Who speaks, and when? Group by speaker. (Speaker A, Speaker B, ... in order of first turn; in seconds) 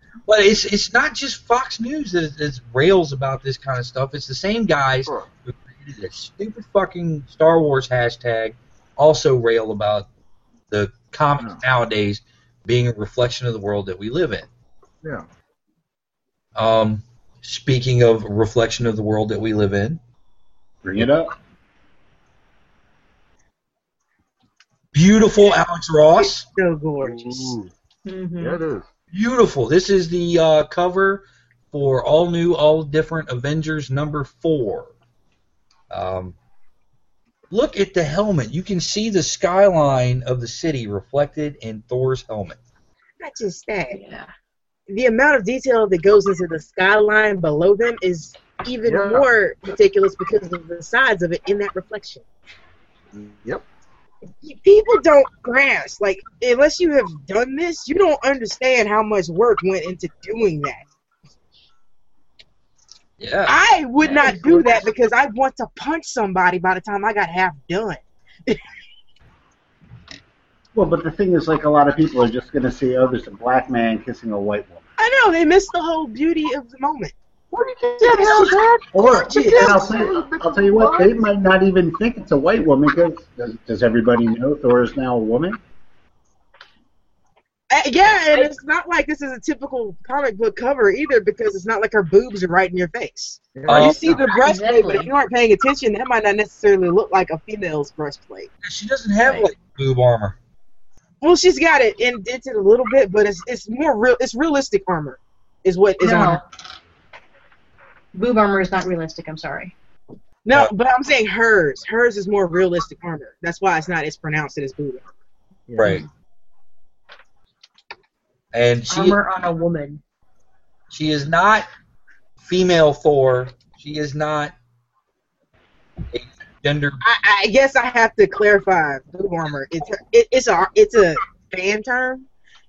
Speaker A: 0.3-10.1, 10.7-14.5, 16.6-20.0, 24.9-26.5, 29.1-34.9, 35.9-36.4, 37.5-42.6, 63.2-63.6, 93.7-94.2, 98.6-100.4, 115.8-116.0, 118.5-119.2, 120.9-121.7, 122.4-124.5, 126.1-127.0
Speaker B: 20.8-21.3, 70.7-74.8, 78.9-85.6
Speaker C: 26.2-27.6, 43.2-44.0, 44.9-52.2, 54.4-60.9, 63.5-68.6, 75.0-77.1, 78.0-80.1, 87.7-98.5, 101.2-106.4, 110.5-115.0, 127.0-132.3
Speaker D: 27.0-27.7, 28.4-28.9, 48.9-49.3, 53.1-53.6, 77.5-81.2, 93.5-94.2, 115.7-116.0
Speaker E: 28.1-28.6, 43.9-44.3, 64.1-64.7, 94.1-95.1, 99.2-99.5, 106.0-106.4, 108.1-109.7, 115.8-116.1, 118.9-120.0